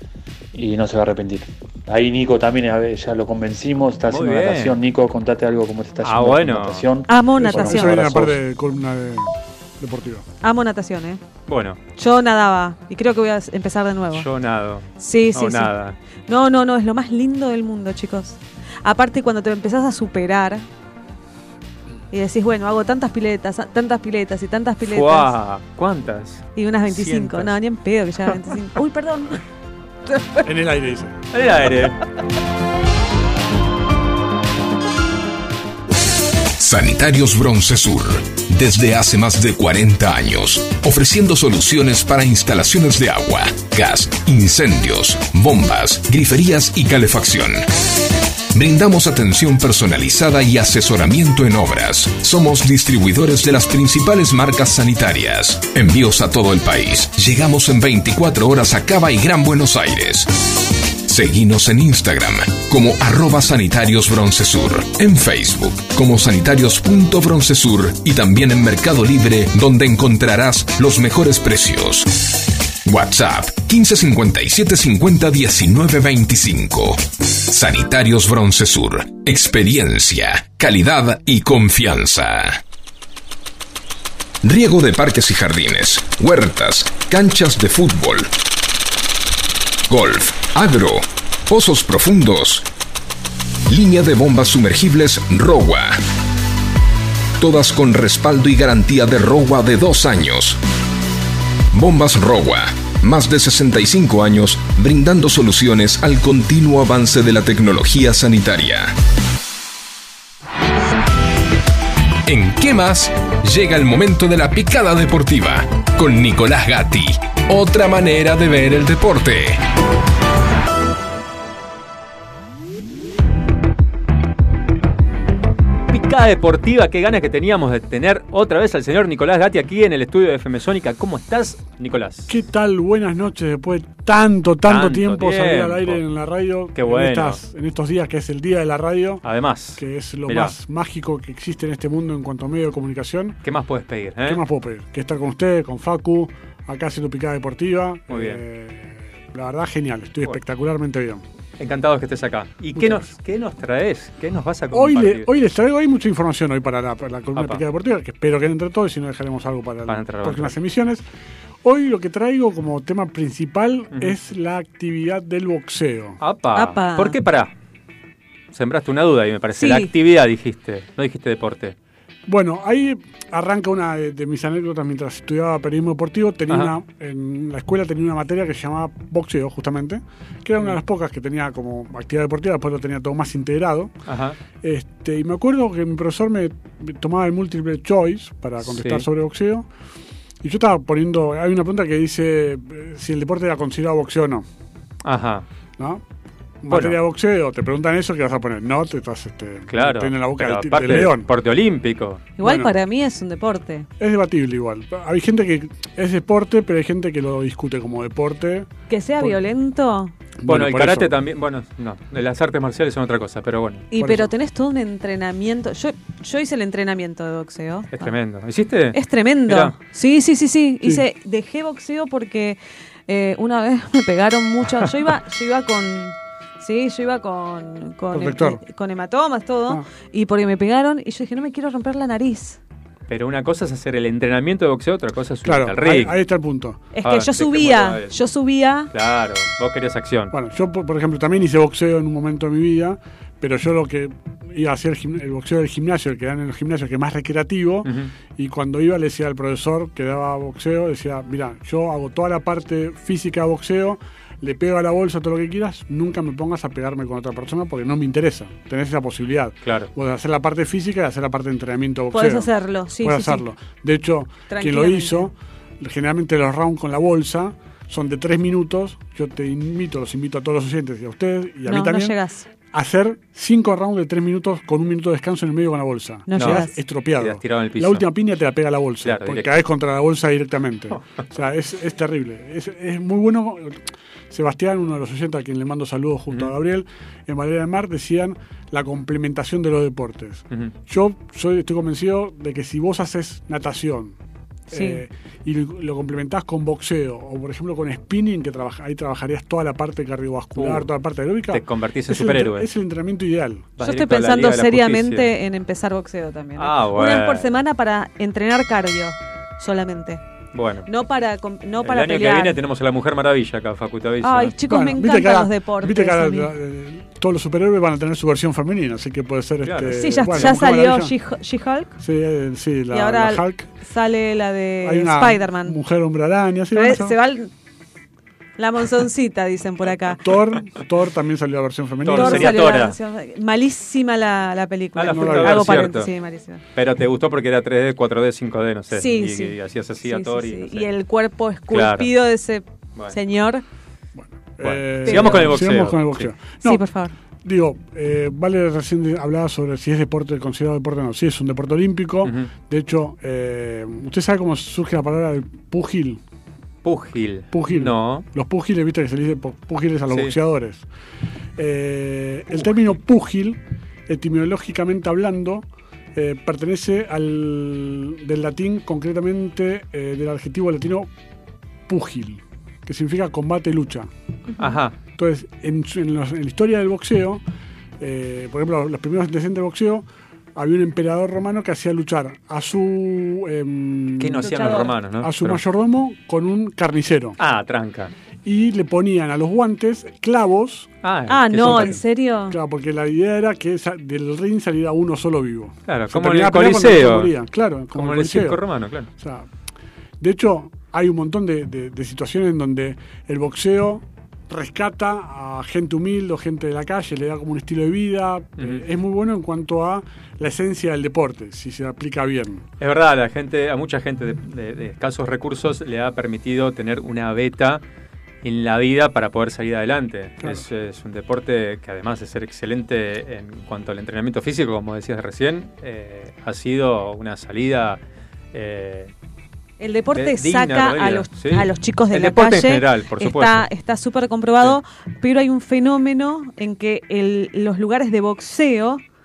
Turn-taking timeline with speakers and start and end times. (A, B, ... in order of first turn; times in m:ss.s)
0:00.5-0:08.4 A
0:04.1-0:04.8 B
0:06.0-0:06.9 B
0:07.1-0:08.0 C
0:07.4-0:10.2 D
0:10.4-0:11.2 C
0:11.5-0:11.8 B
0:12.0-0:14.3 C
0:14.1-0:16.0 B
0:15.0-0:15.7 C
0:16.3-0:20.6 C
0:22.1-0:25.3 C
0:24.8-0:27.5 B
0:26.6-0:29.4 C
0:30.4-0:31.2 D
0:31.3-0:32.0 B
0:36.6-0:47.7 E
0:48.5-1:00.3 E
1:01.0-1:22.6 E
1:24.4-1:28.3 E
1:29.9-1:32.6 E
1:33.7-1:36.0 E
1:37.4-1:40.6 E
1:41.7-1:48.9 E
1:52.2-1:59.6 E
2:05.9-2:12.3 B
2:12.3-2:19.2 D
2:14.6-2:16.0 B
2:16.7-2:17.4 B
2:19.2-2:20.5 B
2:19.8-2:23.4 D
2:23.4-2:24.4 B
2:24.2-2:31.2 D
2:28.1-2:28.4 B
2:31.6-2:35.3 B
2:32.7-2:33.1 D
2:34.7-2:41.0 D
2:37.3-2:37.6 B
2:39.9-2:40.5 B
2:41.6-2:46.2 D
2:46.2-2:47.5 B
2:46.5-2:47.2 C
2:48.5-2:51.8 B
2:49.6-2:49.9 C
2:52.3-3:03.9 D
3:04.1-3:04.4 B
3:04.6-3:09.7 D
3:08.6-3:09.0 B
3:10.4-3:14.4 D
3:15.0-3:15.4 B
3:16.6-3:21.3 D
3:16.7-3:17.0 B
3:19.7-3:22.2 B
3:22.4-3:23.9 C
3:22.4-3:22.7 D
3:24.0-3:29.3 D
3:28.9-3:30.1 C
3:30.4-3:31.1 D
3:30.4-3:33.8 B
3:33.9-3:38.1 C
3:34.0-3:34.3 D
3:37.9-3:39.7 B
3:38.9-3:52.6 C
3:48.1-3:48.6 D
3:53.1-3:56.2 B
3:55.4-3:56.8 D
3:56.9-3:58.9 C
3:57.0-3:58.2 B
3:58.9-4:00.3 B
4:00.3-4:22.5 D
4:07.8-4:08.1 B
4:19.6-4:19.9 B
4:22.1-4:23.4 C
4:23.0-4:32.2 D
4:24.5-4:25.3 C
4:31.6-4:32.5 C
4:32.7-4:54.2 D
4:36.3-4:36.7 C
4:36.3-4:36.6 B
4:37.2-4:38.0 B
4:39.0-4:39.6 B
4:54.7-4:55.0 C
4:54.7-5:03.7 D
5:00.6-5:00.9 B
5:01.5-5:02.7 B
5:03.8-5:05.3 B
5:03.8-5:10.2 C
5:06.6-5:07.5 B
5:10.5-5:10.9 B
5:10.8-5:12.6 C
5:11.8-5:14.6 B
5:14.2-5:16.5 C
5:14.7-5:21.1 D
5:19.6-5:20.6 B
5:20.0-5:22.0 C
5:22.0-5:23.7 D
5:22.9-5:25.8 C
5:24.8-5:27.2 D
5:26.7-5:27.5 C
5:28.6-5:30.2 C
5:30.1-5:32.6 D
5:32.0-5:33.0 B
5:32.1-5:36.6 C
5:35.0-5:36.1 B
5:35.1-5:35.9 D
5:36.7-5:40.9 B
5:38.9-5:43.6 C
5:41.7-5:42.1 B
5:44.2-5:46.8 D
5:44.6-5:46.3 B
5:45.0-5:45.6 C
5:46.6-5:47.1 C
5:47.4-5:56.2 D
5:52.2-5:52.5 B
5:56.8-5:58.2 B
5:57.5-6:00.8 D
6:00.1-6:00.3 B
6:01.6-6:11.1 D
6:11.9-6:14.1 D
6:14.6-6:15.0 B
6:15.2-6:17.4 D
6:18.0-6:27.4 D
6:24.2-6:25.6 B
6:24.4-6:24.9 C
6:27.4-6:28.1 B
6:28.4-6:30.9 D
6:31.0-6:32.0 B
6:31.3-6:32.6 C
6:31.6-6:38.6 D
6:35.9-6:37.3 B
6:37.9-6:39.1 B
6:39.2-6:39.5 D
6:40.2-6:52.6 D
6:52.8-6:57.8 B
6:58.4-7:08.0 B
7:08.5-7:09.1 B
7:09.8-7:19.0 C
7:10.1-7:13.7 B